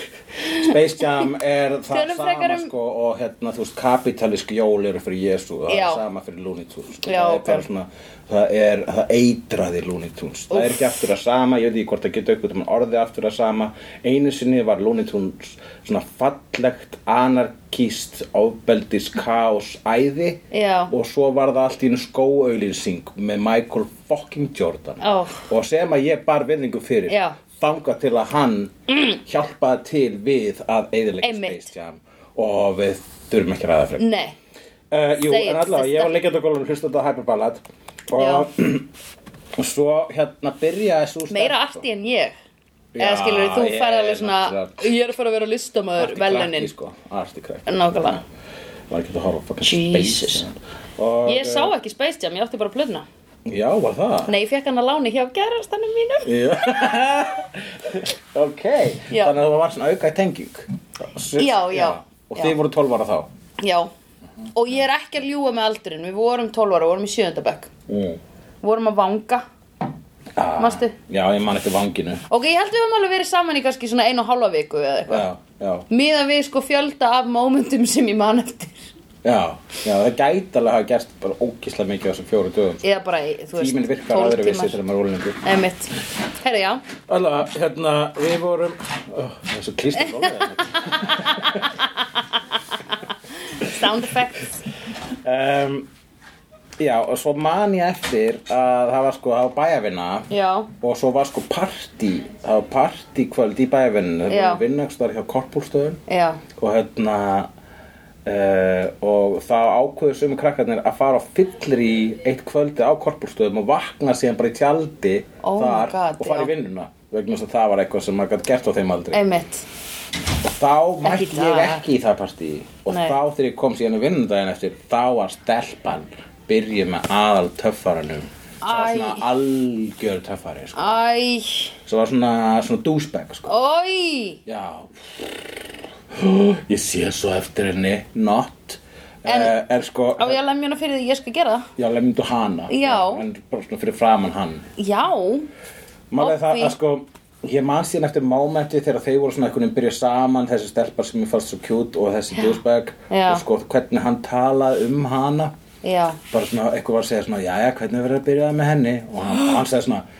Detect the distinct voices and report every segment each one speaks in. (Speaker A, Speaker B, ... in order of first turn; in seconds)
Speaker A: 0.4-0.7, 1.9-2.7, 5.7-6.0, 7.0-7.7, 10.5-10.8, 20.5-20.9, 25.0-25.4, 27.1-27.4, 31.2-31.7, 34.0-34.3, 35.3-36.1, 38.1-38.5, 41.3-42.3, 43.0-46.7, 47.6-48.2, 49.6-50.5, 51.2-53.0, 54.2-56.4, 61.4-62.5, 63.6-63.9, 64.5-67.7, 68.6-69.4, 70.6-70.9, 72.3-75.3, 75.9-78.8, 82.8-84.8, 85.4-86.8, 90.9-91.6, 93.4-94.6, 100.3-100.7, 104.3-104.6, 106.1-106.4, 115.4-116.5, 119.1-119.6, 121.0-121.8, 122.9-123.1, 128.6-129.3, 130.7-131.7, 133.5-134.4, 139.2-139.5, 140.2-141.7, 142.7-143.2, 144.8-145.5, 146.2-146.7, 153.1-153.4, 155.8-156.2
Speaker B: 0.4-34.1, 34.9-38.9, 39.6-41.8, 42.9-44.9, 46.0-48.1, 48.9-51.7, 53.5-54.3, 56.2-63.3, 67.9-68.2, 70.3-72.2, 75.1-75.9, 79.2-82.8, 83.6-85.4, 87.1-91.7, 95.2-95.9, 96.8-106.0, 106.5-107.5, 108.2-119.2, 120.4-131.0, 131.8-133.5, 134.4-135.5, 136.1-140.4, 141.8-144.7, 146.1-155.5, 156.3-160.1